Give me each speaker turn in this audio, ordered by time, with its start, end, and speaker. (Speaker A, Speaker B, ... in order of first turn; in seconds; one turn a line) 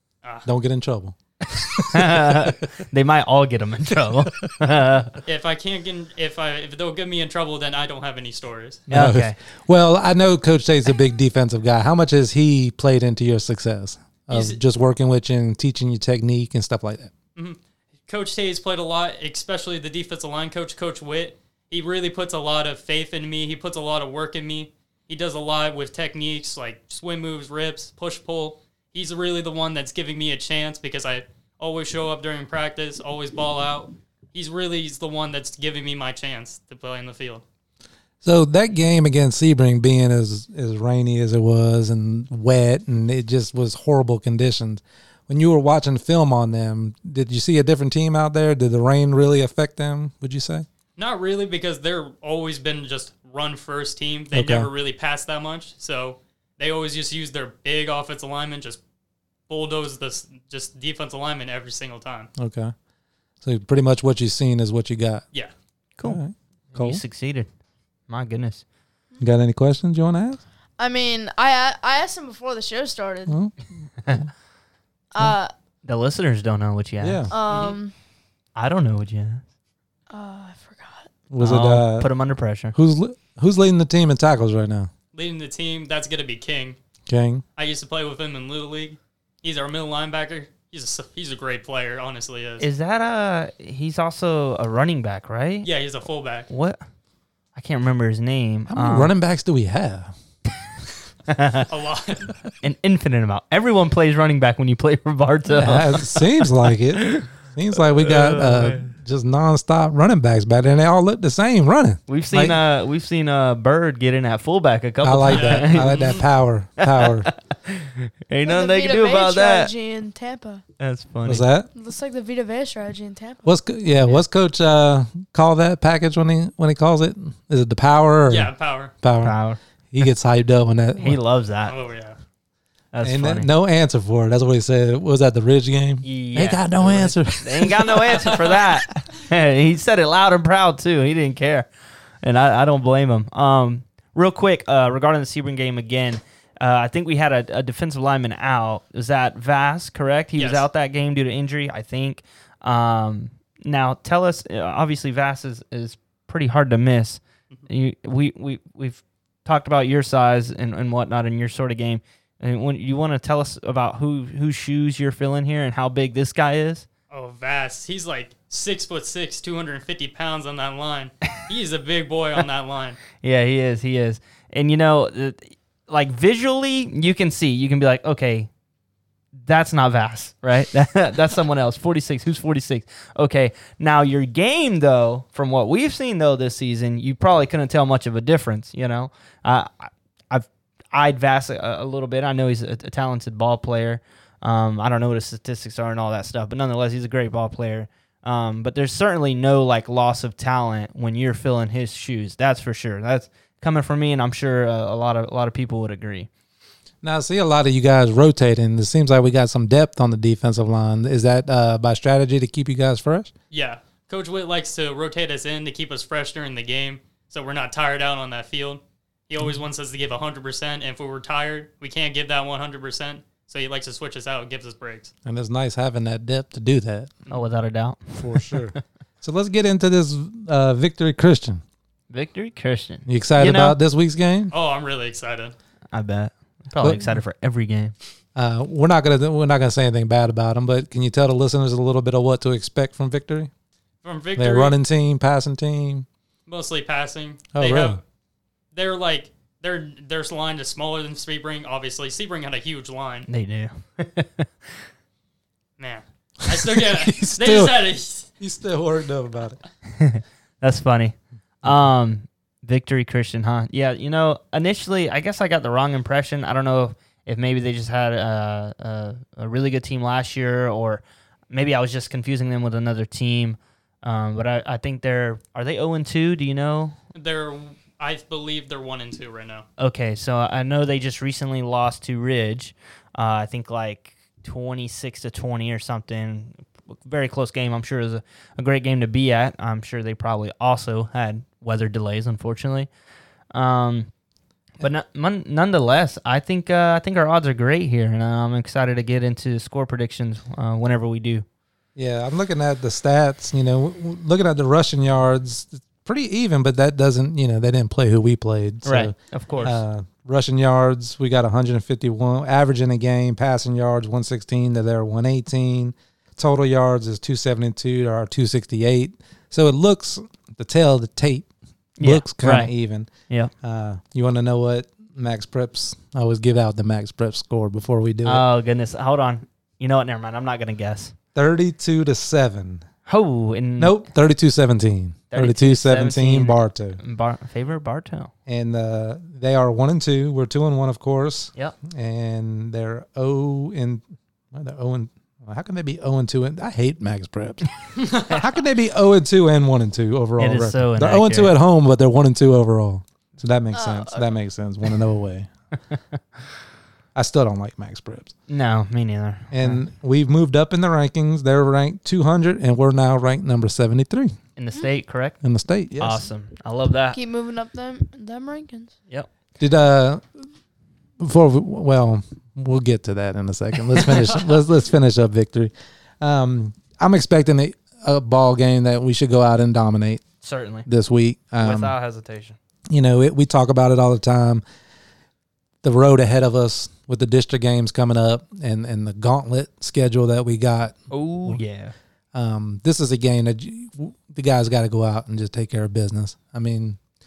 Speaker A: 0.5-2.5
Speaker B: 1.6-5.2
Speaker C: 5.2-8.8
Speaker A: 8.9-17.1
Speaker B: 8.9-9.4
Speaker C: 14.3-14.6
Speaker C: 17.4-37.4
Speaker A: 38.2-50.6
Speaker C: 51.0-58.8
Speaker A: 54.3-54.7
Speaker C: 59.5-62.3
Speaker A: 62.4-62.7
Speaker A: 63.4-65.2
Speaker A: 66.0-67.0
Speaker B: 66.7-67.5
Speaker B: 68.1-68.6
Speaker A: 69.2-70.4
Speaker D: 70.8-73.4
Speaker A: 73.3-74.3
Speaker D: 75.1-75.5
Speaker B: 75.8-77.3
Speaker A: 77.0-77.3
Speaker D: 77.3-77.9
Speaker C: 77.5-77.8
Speaker B: 78.5-79.4
Speaker D: 80.1-81.1
Speaker A: 81.3-82.1
Speaker B: 81.4-82.7
Speaker A: 82.7-84.9
Speaker C: 85.1-86.8
Speaker A: 87.1-87.4
Speaker C: 87.6-92.7
Speaker B: 92.6-95.7
Speaker C: 95.6-96.5
Speaker B: 96.5-96.8
Speaker B: 97.5-99.1
Speaker A: 98.7-100.1
Speaker B: 101.3-101.7
Speaker C: 101.7-102.3
Speaker B: 102.6-107.3
Speaker A: 105.5-112.6
Speaker B: 107.8-108.9
Speaker B: 112.1-116.1
Speaker A: 115.0-117.3
Speaker C: 115.3-116.2
Speaker B: 116.8-119.7
Speaker D: 118.4-120.6
Speaker B: 120.8-121.4
Speaker A: 121.2-121.7
Speaker D: 121.7-123.5
Speaker A: 123.4-128.5
Speaker C: 128.3-128.9
Speaker A: 129.0-129.3
Speaker B: 129.2-129.6
Speaker A: 129.9-131.2
Speaker B: 131.0-131.7
Speaker C: 131.6-132.2
Speaker B: 132.9-133.5
Speaker A: 133.0-138.5
Speaker B: 136.0-141.7
Speaker B: 142.2-166.8
Speaker C: 150.4-150.7
Speaker C: 167.1-173.0
Speaker B: 173.2-178.5
Speaker B: 179.4-206.3
Speaker A: 207.0-213.3
Speaker C: 213.5-225.1
Speaker A: 225.2-227.1
Speaker B: 227.3-228.8
Speaker A: 228.2-231.6
Speaker B: 232.1-233.8
Speaker A: 233.1-234.5
Speaker C: 234.5-235.5
Speaker B: 235.9-237.9
Speaker A: 236.8-237.2
Speaker A: 238.3-243.5
Speaker C: 244.0-244.7
Speaker A: 244.3-246.1
Speaker C: 246.5-248.0
Speaker A: 247.5-248.0
Speaker C: 248.7-253.3
Speaker B: 253.3-254.7
Speaker C: 255.8-258.3
Speaker A: 256.5-257.8
Speaker A: 258.4-259.6
Speaker B: 259.9-276.9
Speaker C: 277.1-279.6
Speaker B: 279.8-292.9
Speaker B: 293.5-294.1
Speaker B: 294.8-301.4
Speaker A: 301.9-321.5
Speaker B: 308.8-309.8
Speaker B: 322.0-322.7
Speaker A: 322.0-323.1
Speaker A: 323.6-328.4
Speaker B: 328.2-331.1
Speaker A: 331.3-332.8
Speaker B: 333.1-334.0
Speaker A: 333.8-337.0
Speaker B: 335.3-338.3
Speaker A: 338.5-355.5
Speaker C: 348.0-348.3
Speaker B: 350.4-351.5
Speaker D: 353.7-354.3
Speaker A: 357.1-358.3
Speaker B: 358.5-359.8
Speaker A: 359.5-364.3
Speaker B: 364.6-365.4
Speaker A: 365.4-366.2
Speaker B: 366.0-367.2
Speaker D: 367.1-368.9
Speaker A: 369.6-370.4
Speaker A: 371.2-380.2
Speaker B: 380.4-380.9
Speaker A: 380.9-381.9
Speaker B: 381.6-382.6
Speaker A: 382.9-384.6
Speaker A: 385.8-391.6
Speaker B: 391.1-391.9
Speaker A: 392.3-397.0